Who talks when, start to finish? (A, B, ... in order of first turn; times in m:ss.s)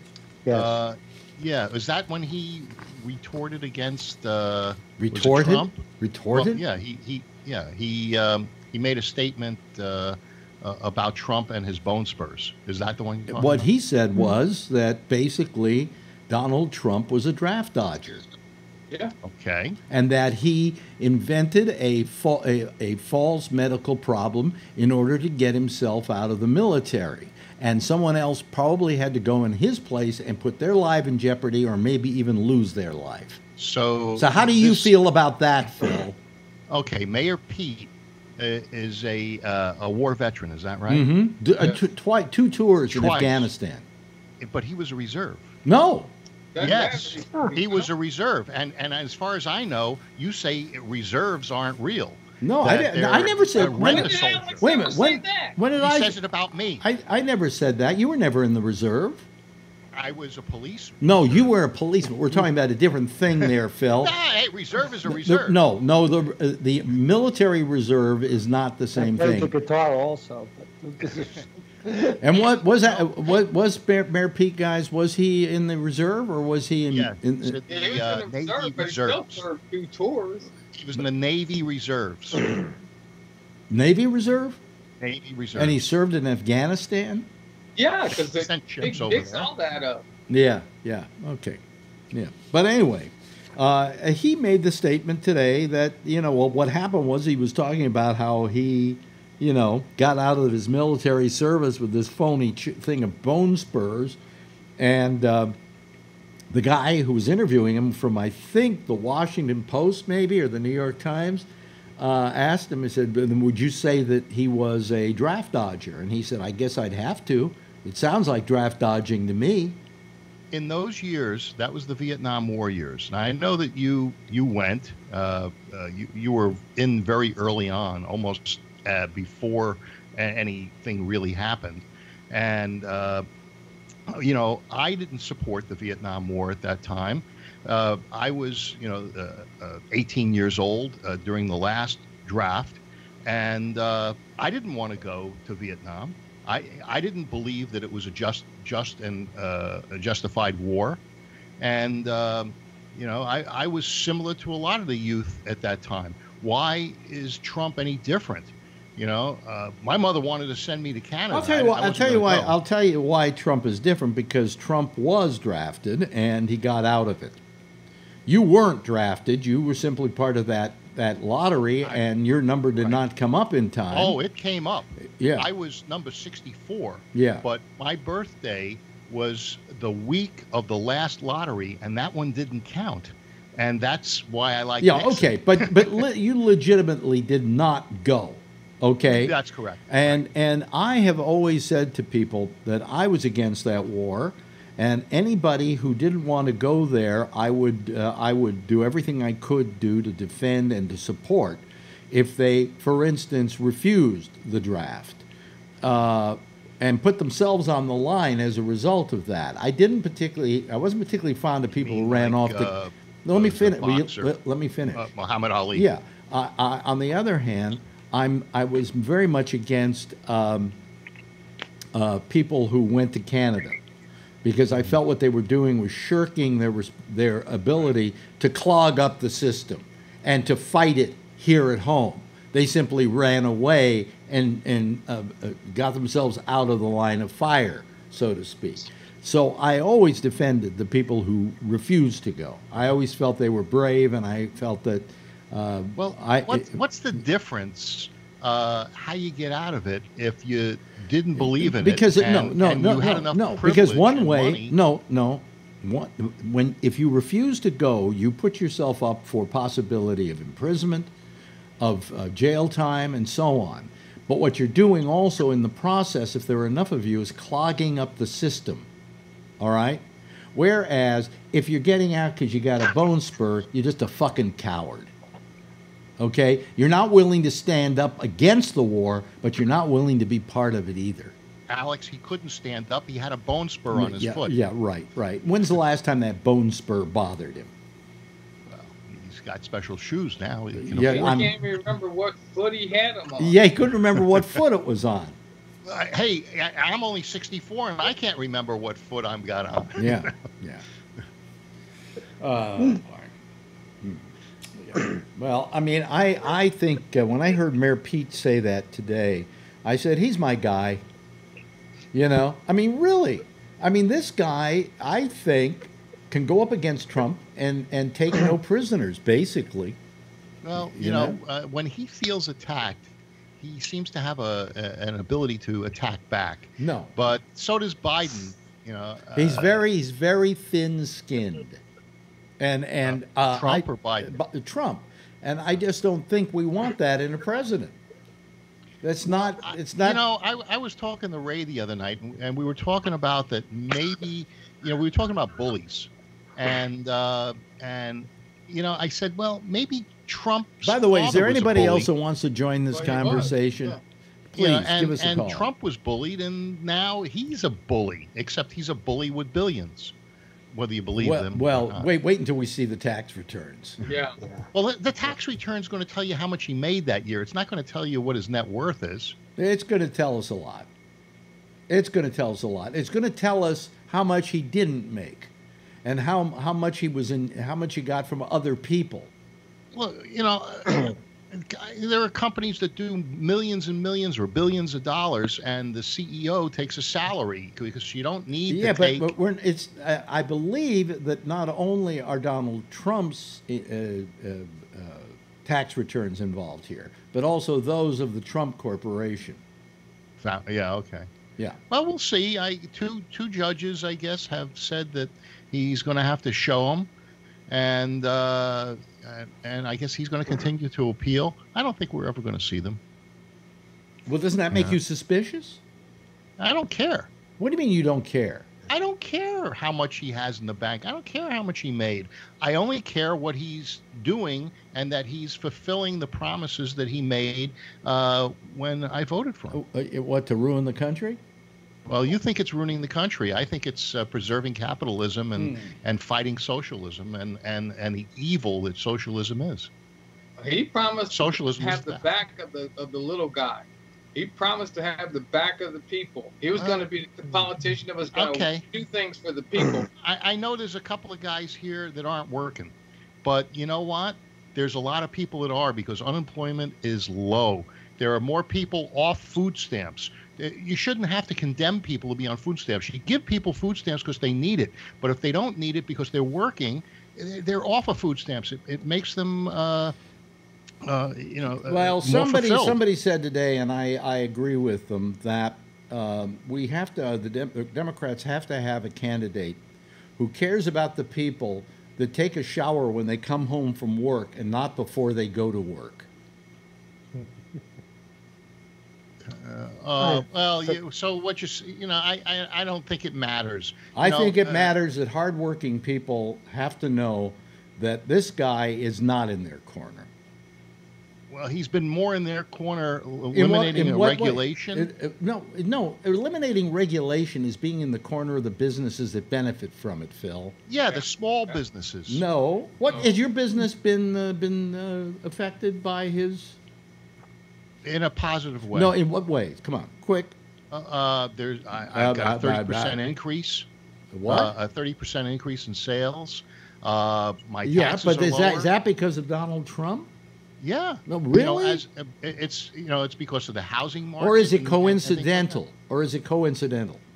0:00.5-0:13.6 A
0:05.0-0:06.6 B
0:13.3-0:18.2 B
0:19.2-0:19.8 A
0:19.9-0:33.4 B
0:33.6-0:34.9 A
0:34.2-0:36.2 B
0:36.7-0:41.1 A
0:40.9-0:43.9 B
0:42.9-0:43.5 A
0:44.4-0:45.6 A
0:45.6-0:46.1 B
0:46.6-0:47.9 C
0:46.6-0:54.7 A
0:47.3-0:47.6 D
0:52.4-0:56.2 B
0:53.6-0:55.6 C
0:55.8-0:56.8 A
0:56.8-0:59.3 B
0:59.9-1:01.5 A
1:01.0-1:04.1 B
1:03.4-1:05.6 A
1:05.1-1:09.5 B
1:08.9-1:12.2 D
1:12.2-1:17.6 B
1:12.3-1:13.0 A
1:16.9-1:19.4 A
1:17.7-1:20.5 C
1:20.6-1:22.6 A
1:23.7-1:24.6 B
1:25.0-1:25.9 A
1:25.6-1:27.3 B
1:27.8-1:30.0 C
1:28.3-1:29.5 A
1:30.3-1:44.2 B
1:44.8-1:45.6 B
1:46.5-1:59.8 B
2:00.5-2:13.3 A
2:14.1-2:31.0 A
2:31.6-2:42.6 A
2:41.3-2:47.4 B
2:48.3-2:54.2 B
2:52.8-2:53.0 A
2:53.9-3:06.0 A
2:55.0-2:55.5 B
2:57.1-2:57.4 B
3:04.8-3:09.3 B
3:09.0-3:10.2 A
3:09.9-3:25.2 B
3:25.8-3:32.7 B
3:31.8-3:34.3 A
3:33.2-3:35.1 B
3:34.9-3:35.9 A
3:35.7-3:40.8 B
3:41.9-3:43.8 B
3:44.4-4:06.8 B
4:06.0-4:14.7 A
4:11.4-4:21.1 B
4:21.8-4:28.9 B
4:29.6-4:35.1 B
4:36.2-4:41.4 B
4:41.7-4:44.5 A
4:43.9-4:47.7 B
4:48.7-4:51.4 A
4:50.8-4:51.6 B
4:50.9-4:53.6 C
4:53.4-4:55.4 B
4:55.8-5:00.4 A
5:00.0-5:00.8 B
5:02.4-5:03.3 B
5:04.0-5:11.0 B
5:12.1-5:20.0 B
5:20.6-5:29.8 A
5:20.8-5:21.4 B
5:26.8-5:27.2 B
5:29.3-5:31.8 B
5:32.6-5:38.0 B
5:33.0-5:34.3 A
5:39.0-5:40.2 B
5:39.6-5:52.1 A
5:50.8-5:54.0 B
5:52.9-5:54.0 C
5:54.5-5:55.7 B
5:54.6-6:00.1 A
6:00.7-6:02.1 A
6:01.2-6:04.0 B
6:04.0-6:04.3 C
6:04.4-6:04.7 D
6:04.7-6:09.4 A
6:09.6-6:10.9 B
6:11.9-6:15.5 B
6:16.0-6:19.3 B
6:19.9-6:29.3 A
6:28.7-6:39.6 B
6:40.4-6:41.3 A
6:41.9-6:47.1 A
6:47.7-6:53.0 A
6:54.3-6:55.8 B
6:56.6-6:57.3 A
6:57.6-6:58.7 B
6:58.9-7:09.8 A
7:09.7-7:11.4 B
7:12.0-7:19.9 A
7:15.6-7:16.0 B
7:20.6-7:30.1 C
7:21.3-7:22.2 A
7:26.8-7:27.0 A
7:28.3-7:28.9 A
7:30.2-7:50.1 A
7:51.0-7:53.0 A
7:51.7-7:59.8 B
8:00.4-8:06.3 B
8:09.4-8:14.9 A
8:10.2-8:11.0 D
8:14.1-8:20.3 B
8:21.5-8:25.1 A
8:23.5-8:30.8 B
8:30.9-8:32.4 A
8:32.3-8:36.8 B
8:38.0-8:39.1 A
8:38.9-8:40.6 B
8:40.9-8:43.9 A
8:42.0-8:43.4 B
8:44.3-8:44.7 B
8:44.5-8:48.9 A
8:47.8-8:50.3 B
8:50.8-8:55.8 A
8:51.3-8:52.0 B
8:54.4-8:57.2 B